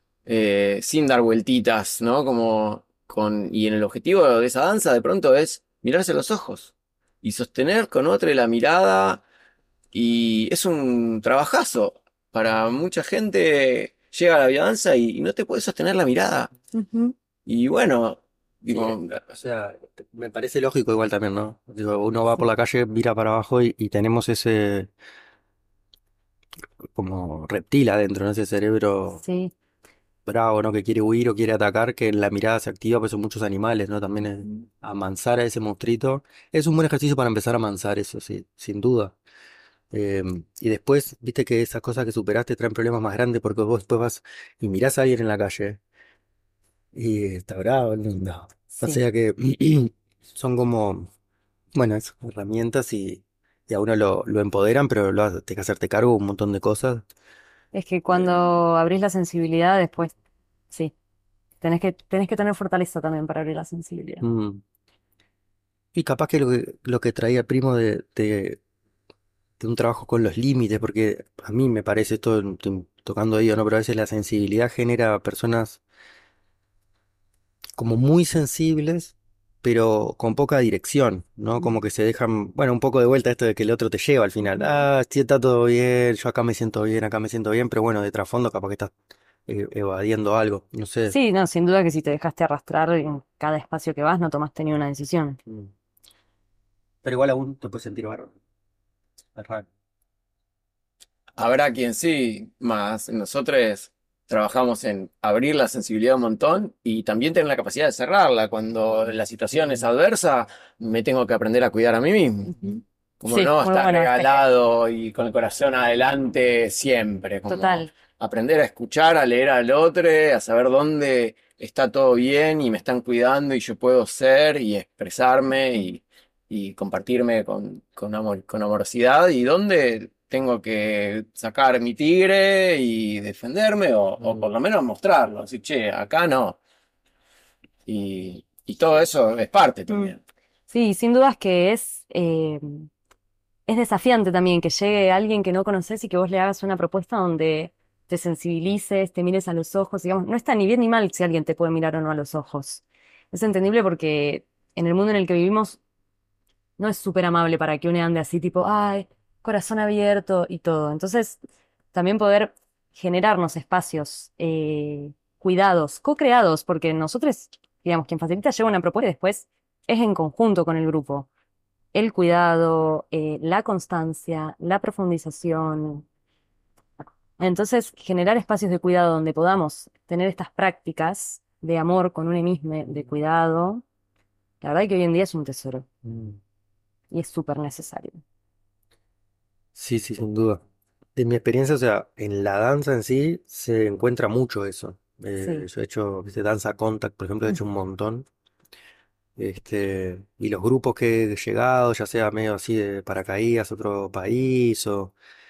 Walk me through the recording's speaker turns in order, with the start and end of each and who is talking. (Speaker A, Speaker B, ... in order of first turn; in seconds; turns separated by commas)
Speaker A: 0.2-9.2, Speaker A: 9.9-16.5, Speaker B: 16.7-17.1, Speaker A: 17.5-19.2, Speaker C: 18.7-24.9, Speaker C: 26.9-29.2, Speaker B: 29.2-29.5, Speaker C: 30.2-39.1, Speaker C: 39.9-45.8, Speaker C: 46.9-51.1, Speaker C: 51.7-57.0, Speaker B: 57.7-60.1, Speaker B: 61.6-64.2, Speaker C: 64.2-64.6, Speaker C: 65.9-68.6, Speaker C: 69.6-75.8, Speaker C: 77.8-88.9, Speaker C: 89.5-91.1, Speaker B: 91.1-95.4, Speaker C: 97.0-98.3, Speaker C: 99.3-99.7, Speaker A: 101.4-112.6, Speaker B: 112.5-114.4, Speaker A: 113.2-136.6, Speaker B: 117.5-117.9, Speaker A: 137.8-140.2, Speaker B: 140.7-142.9, Speaker B: 143.7-155.8, Speaker B: 156.8-161.4, Speaker B: 161.9-171.3, Speaker B: 171.9-176.1, Speaker B: 177.4-183.8, Speaker B: 184.6-185.9, Speaker C: 186.0-186.4, Speaker B: 187.1-188.2, Speaker C: 189.7-190.6, Speaker C: 191.2-198.2, Speaker B: 195.4-195.7, Speaker C: 199.4-205.1